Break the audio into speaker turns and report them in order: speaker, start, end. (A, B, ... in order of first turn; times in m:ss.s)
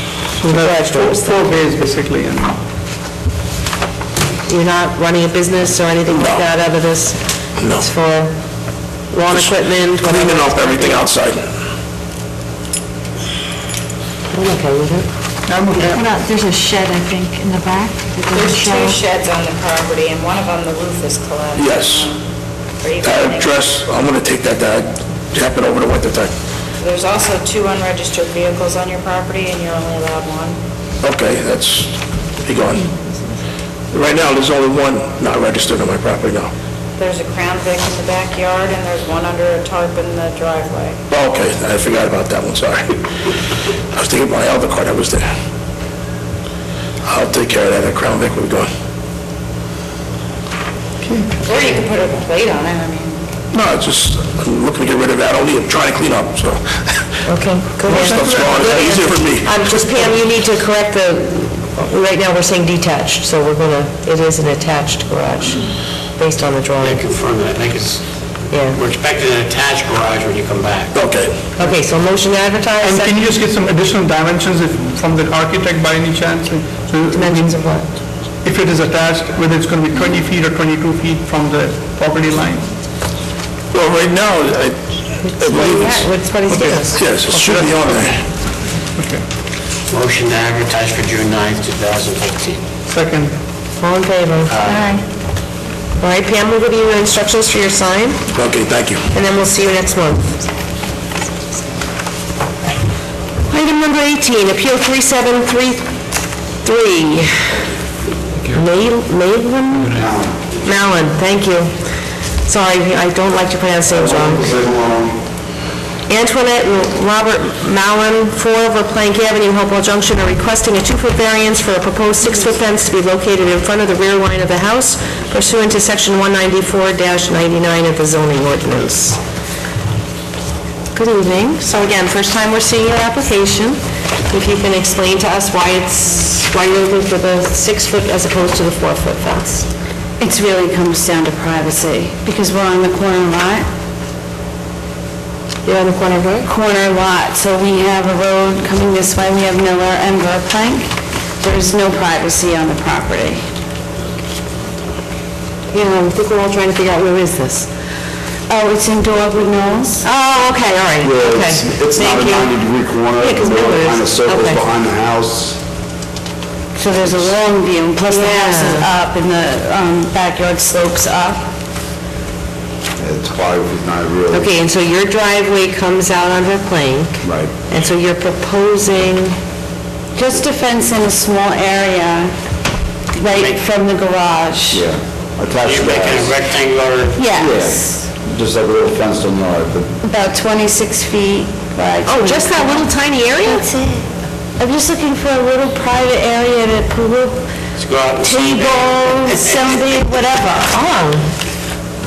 0:00.4-0:01.5 A
0:00.4-0:02.6 B
0:04.5-0:08.3 A
0:06.1-0:06.4 C
0:07.6-0:07.8 C
0:09.1-0:11.1 A
0:09.3-0:11.5 C
0:14.3-0:15.1 A
0:15.5-0:16.0 B
0:15.8-0:18.9 D
0:18.3-0:22.2 E
0:21.6-0:22.1 C
0:22.8-0:23.7 E
0:23.0-0:26.3 C
0:26.8-0:30.6 E
0:31.0-0:32.9 C
0:33.9-0:36.5 C
0:37.0-0:41.0 E
0:41.1-0:42.9 C
0:43.9-0:45.3 C
0:47.0-0:48.7 C
0:51.0-0:51.4 B
0:51.4-0:53.3 E
0:53.5-0:57.2 C
0:57.3-1:07.0 A
0:57.8-1:00.0 C
1:06.8-1:11.0 F
1:08.5-1:08.8 A
1:10.9-1:11.3 C
1:11.6-1:13.2 A
1:12.8-1:17.8 B
1:17.1-1:17.8 A
1:18.4-1:22.7 B
1:23.7-1:28.2 C
1:25.2-1:27.0 A
1:26.5-1:28.2 B
1:29.0-1:29.2 B
1:29.9-1:32.6 F
1:32.9-1:33.3 B
1:33.8-1:34.5 A
1:34.4-1:35.0 F
1:36.0-1:38.2 A
1:38.3-1:39.1 C
1:39.1-1:40.4 A
1:43.5-1:45.9 A
1:46.6-1:47.6 A
1:48.5-1:50.1 A
1:49.9-1:50.6 G
1:50.6-1:51.7 A
1:52.4-1:54.5 A
1:53.9-1:55.2 G
1:56.1-2:09.2 A
2:10.9-2:13.8 A
2:14.3-2:19.7 A
2:20.2-2:23.6 H
2:25.6-2:26.5 A
2:26.4-2:30.9 H
2:31.4-2:33.4 H
2:35.7-2:37.7 A
2:38.5-2:40.0 H
2:40.0-2:42.6 A
2:41.0-2:45.6 G
2:43.1-2:44.6 A
2:46.8-2:51.5 H
2:47.0-2:47.3 G
2:48.1-2:48.9 A
2:53.0-2:54.5 G
2:54.3-2:59.4 A
2:57.2-2:57.5 G
3:00.1-3:02.3 H
3:03.1-3:04.8 H
3:03.3-3:03.6 F
3:04.7-3:06.4 G
3:05.6-3:07.3 F
3:07.2-3:08.0 H
3:07.3-3:09.9 G
3:10.0-3:12.9 H
3:12.0-3:13.7 A
3:13.4-3:13.8 H
3:14.6-3:17.5 H
3:17.8-3:20.0 F
3:18.2-3:20.7 H
3:20.7-3:21.3 A